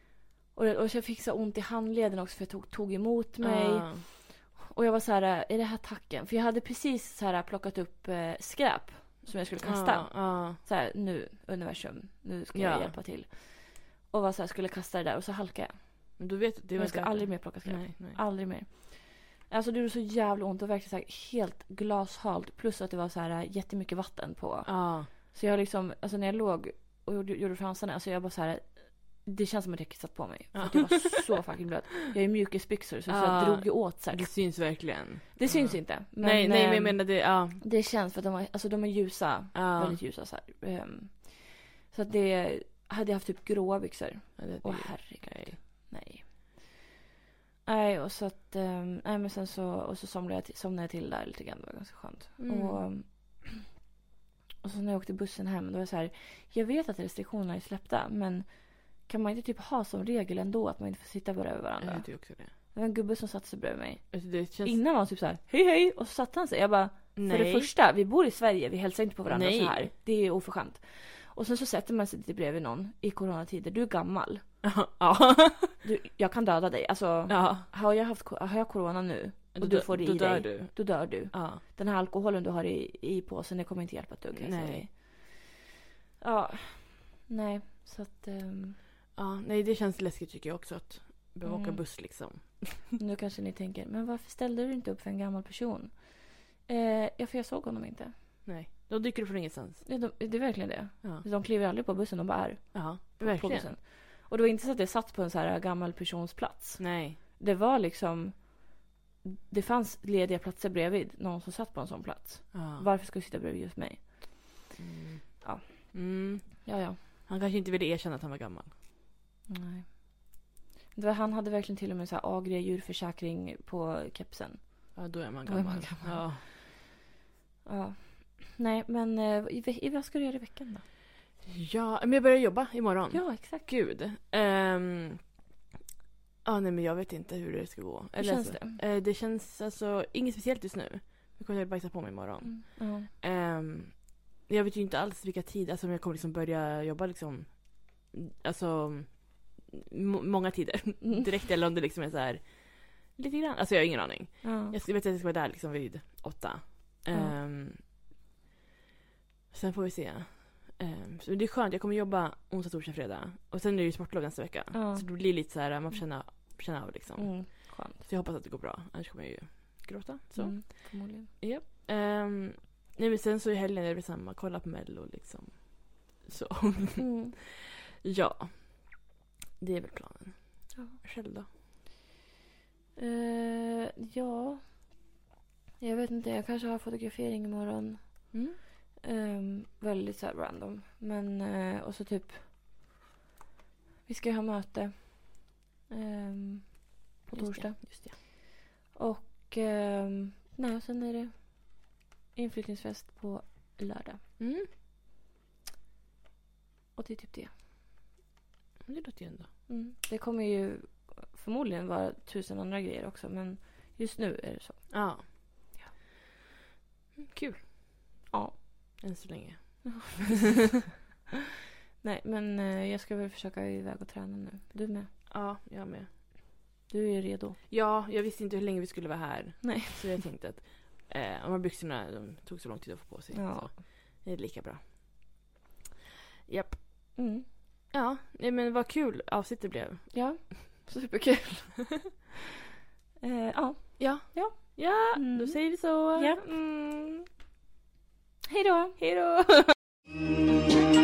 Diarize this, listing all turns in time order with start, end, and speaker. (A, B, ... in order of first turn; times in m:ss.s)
0:00.5-0:34.8 A
0:03.4-0:04.0 B
0:09.6-0:10.6 B
0:12.5-0:12.9 B
0:16.2-0:18.2 B
0:24.6-0:25.1 B
0:30.5-0:31.2 B
0:33.1-0:37.6 B
0:35.3-0:46.8 A
0:39.5-0:40.0 B
0:44.4-0:45.6 B
0:47.6-0:53.7 A
0:52.4-0:52.8 B
0:54.6-1:14.4 A
1:01.8-1:02.5 B
1:04.1-1:04.8 B
1:07.2-1:07.7 B
1:09.2-1:09.9 B
1:14.6-1:15.7 B
1:15.8-1:25.4 A
1:17.3-1:17.7 B
1:19.5-1:21.6 B
1:24.3-1:24.9 B
1:26.2-1:28.8 A
1:29.2-1:32.9 B
1:31.4-1:31.8 A
1:33.0-1:38.1 A
1:38.4-1:39.8 B
1:39.8-1:54.7 A
1:42.7-1:43.7 B
1:46.8-1:47.2 B
1:52.5-1:52.8 B
1:54.8-1:58.7 B
1:55.4-1:57.0 A
1:59.5-2:00.4 A
2:00.9-2:06.5 A
2:04.9-2:06.4 B
2:07.6-2:10.8 A
2:11.4-2:15.2 B
2:13.1-2:13.7 A
2:16.4-2:37.8 B
2:18.2-2:18.8 A
2:22.4-2:23.1 A
2:34.4-2:34.7 A
2:39.5-2:57.4 B
2:44.7-2:45.0 A
2:47.2-2:48.0 A
2:50.4-2:51.3 A
2:57.0-2:57.3 A
2:58.0-2:59.0 B
2:59.6-3:01.5 B
3:00.7-3:01.0 A
3:03.0-3:05.1 A
3:05.8-3:12.5 A
3:08.3-3:08.6 B
3:14.0-3:24.2 A
3:17.3-3:18.1 B
3:24.4-3:24.7 B
3:26.9-3:27.5 A
3:28.8-3:29.5 B
3:29.7-3:35.9 A
3:34.9-3:35.2 B
3:37.3-3:37.7 B
3:38.3-3:39.0 A
3:39.0-3:40.4 B
3:39.8-3:40.6 A
3:42.0-3:45.1 A
3:45.3-3:46.1 B
3:46.9-3:47.6 A
3:47.7-3:55.0 B
3:49.6-3:50.2 A
3:53.3-3:53.8 A
3:56.5-3:56.8 B
3:57.1-3:57.5 A
3:57.9-4:00.1 B
4:00.1-4:02.2 A
4:03.2-4:06.4 A
4:04.0-4:07.2 B
4:08.4-4:09.2 A
4:09.2-4:09.5 B